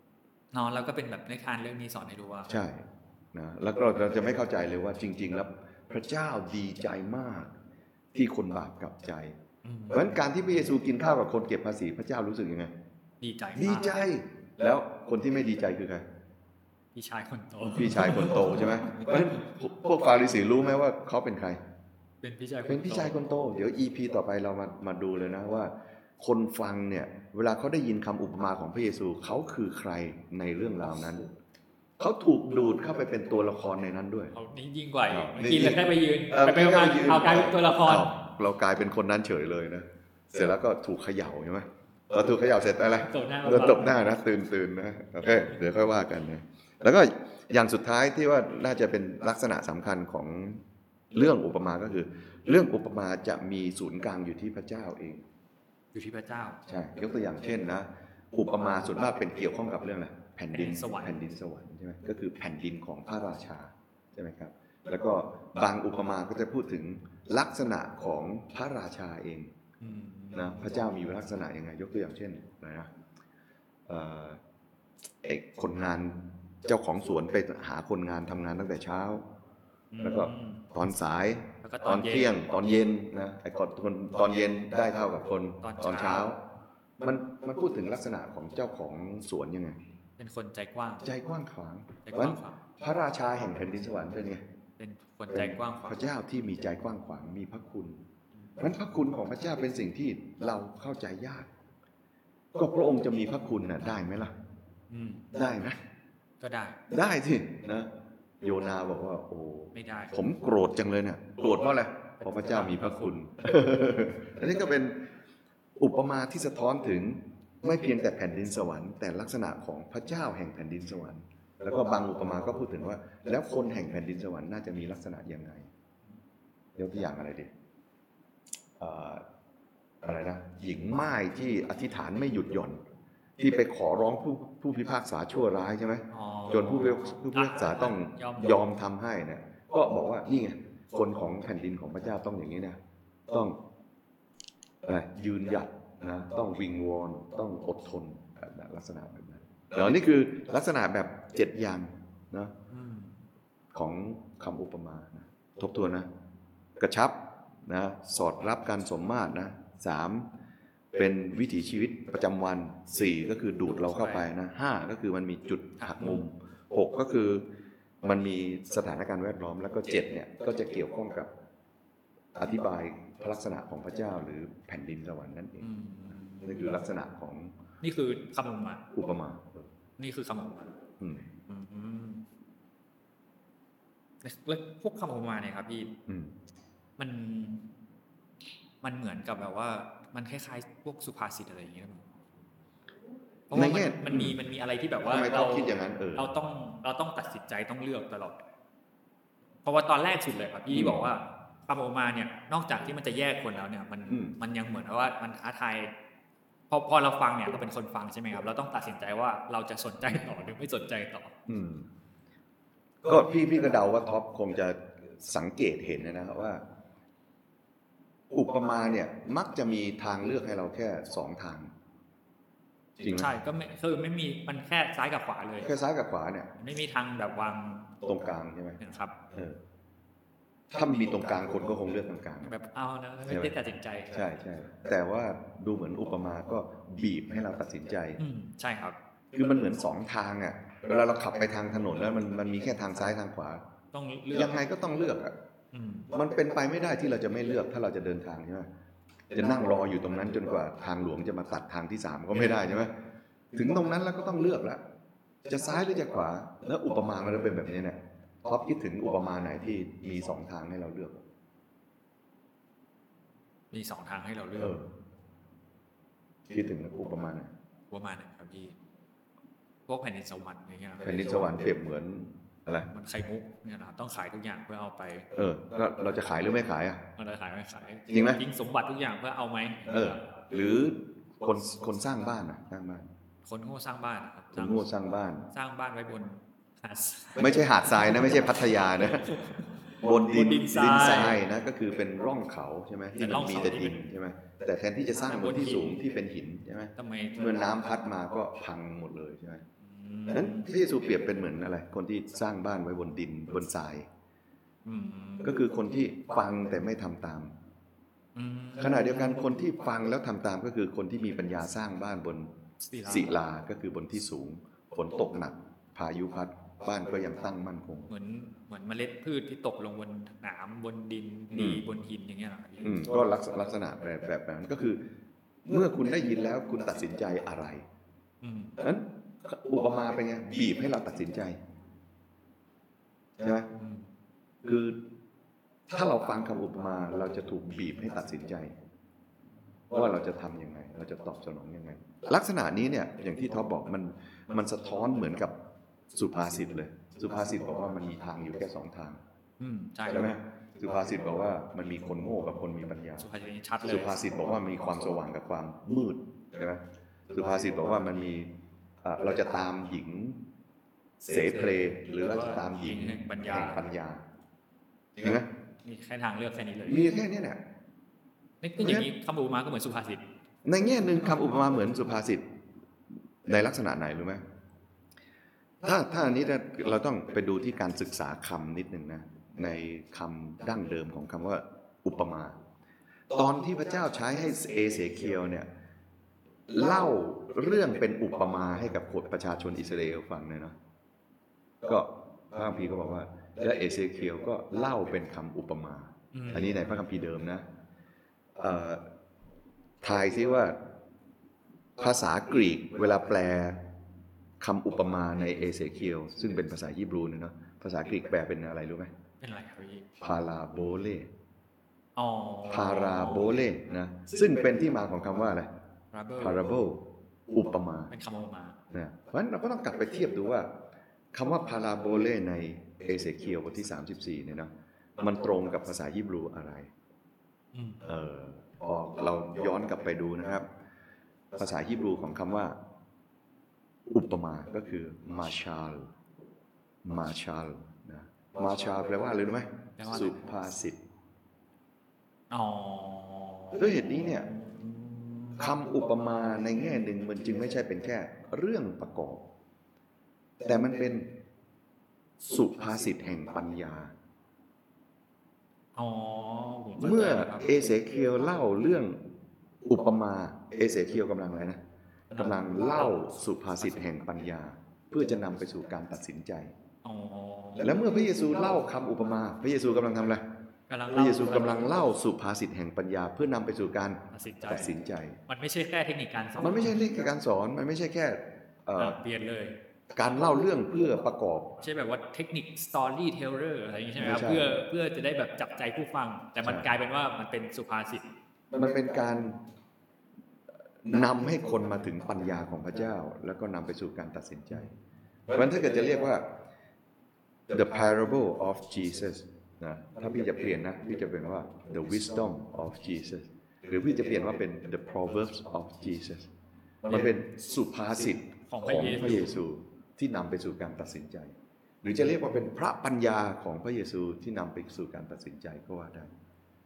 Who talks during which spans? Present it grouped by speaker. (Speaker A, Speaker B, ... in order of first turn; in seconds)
Speaker A: 0.5-2.6, 9.6-10.2, 13.2-14.0, 16.9-19.5, 22.2-23.3, 34.3-38.2, 43.1-44.1, 55.9-56.6, 60.5-61.2, 69.8-70.7, 79.9-80.7, 81.6-82.4, 85.6-86.3, 90.2-91.1, 92.0-92.6, 94.8-96.0, 104.9-105.3, 106.4-106.8, 109.7-110.2, 112.2-113.1, 136.1-138.7, 152.7-153.2, 163.9-164.2, 165.8-166.2, 175.6-176.7, 177.8-178.8, 180.0-180.7, 181.5-182.2, 184.2-185.9, 187.0-187.7, 188.8-192.1, 193.5-198.4, 199.6-205.9, 206.7-211.3, 223.0-225.7, 226.6-227.9, 228.8-229.2, 232.4-234.4, 238.2-239.0, 243.9-244.6, 245.7-246.1, 252.3-252.8, 263.7-264.8, 267.9-268.8, 269.9-271.5, 272.8-275.3, 277.2-280.2, 283.4-284.9, 285.5-291.4, 293.2-294.0, 295.2-296.0, 297.0-297.7, 299.8-300.7, 304.9-305.6, 308.4-309.6, 312.8-313.4, 318.1-323.1, 328.4-328.8, 333.7-334.1, 349.6-350.3, 353.2-354.2, 361.4-363.9, 365.8-367.2, 368.6-370.2, 396.3-396.8, 409.4-410.1, 412.2-413.6, 416.1-416.7, 418.1-418.8, 427.7-428.1, 440.0-440.3, 442.5-445.6, 456.0-457.8, 462.3-463.2, 463.8-464.0, 467.0-468.0, 470.9-472.0, 474.3-477.1, 479.0-479.8, 481.8-488.2, 508.7-509.6
Speaker B: 2.5-7.5, 8.1-9.4, 9.9-12.7, 13.6-16.1, 17.7-21.6, 22.6-31.3, 32.0-34.3, 35.1-55.2, 56.7-69.5, 70.3-72.9, 73.9-74.4, 75.2-79.3, 80.0-86.4, 87.0-89.8, 91.0-94.4, 95.3-98.0, 98.6-101.5, 102.5-104.3, 105.3-105.8, 106.9-107.9, 108.4-115.1, 115.8-125.7, 126.8-127.5, 128.8-129.2, 130.0-132.8, 133.4-143.6, 144.8-152.5, 153.7-156.1, 156.8-160.3, 160.9-167.5, 168.0-171.3, 172.3-175.7, 176.4-177.6, 178.9-179.7, 181.0-181.2, 186.1-186.3, 193.5-194.4, 195.0-196.3, 200.7-201.1, 204.1-204.3, 211.5-211.9, 213.1-216.6, 218.3-221.7, 223.0-223.3, 225.6-226.5, 228.0-228.8, 229.3-229.6, 230.7-232.5, 233.3-233.5, 234.1-238.2, 239.3-243.6, 244.3-245.3, 246.1-248.7, 249.3-252.9, 253.5-254.8, 255.5-261.2, 264.6-264.9, 266.5-267.5, 271.0-272.9, 275.3-277.0, 278.1-278.4, 279.9-283.1, 284.5-285.5, 287.4-289.4, 290.0-299.6, 300.3-304.1, 305.4-307.6, 308.8-312.5, 313.1-318.1, 321.5-321.8, 322.8-325.1, 325.6-327.9, 328.8-331.6, 333.4-333.7, 334.6-335.0, 335.9-338.8, 339.9-345.5, 346.1-349.2, 350.1-353.3, 353.8-358.5, 359.0-360.4, 361.2-364.2, 365.2-365.5, 366.9-367.6, 368.8-369.1, 370.6-372.4, 373.4-374.4, 375.8-382.6, 383.3-385.7, 386.7-390.8, 391.8-397.6, 398.6-399.1, 400.0-400.8, 402.0-403.8, 404.6-409.1, 410.2-411.3, 412.7-415.7, 416.4-418.1, 418.9-420.7, 421.3-426.9, 428.0-430.7, 431.5-432.8, 434.1-436.1, 437.0-441.0, 443.8-444.5, 445.6-449.4, 450.6-451.3, 452.4-454.1, 457.0-459.2, 459.8-461.8, 462.4-466.7, 467.8-470.4, 471.1-475.4, 476.6-479.2, 480.1-481.7, 484.2-484.7, 486.6-486.9, 488.7-489.6, 491.0-494.9, 495.5-496.5, 497.7-506.5, 507.1-516.3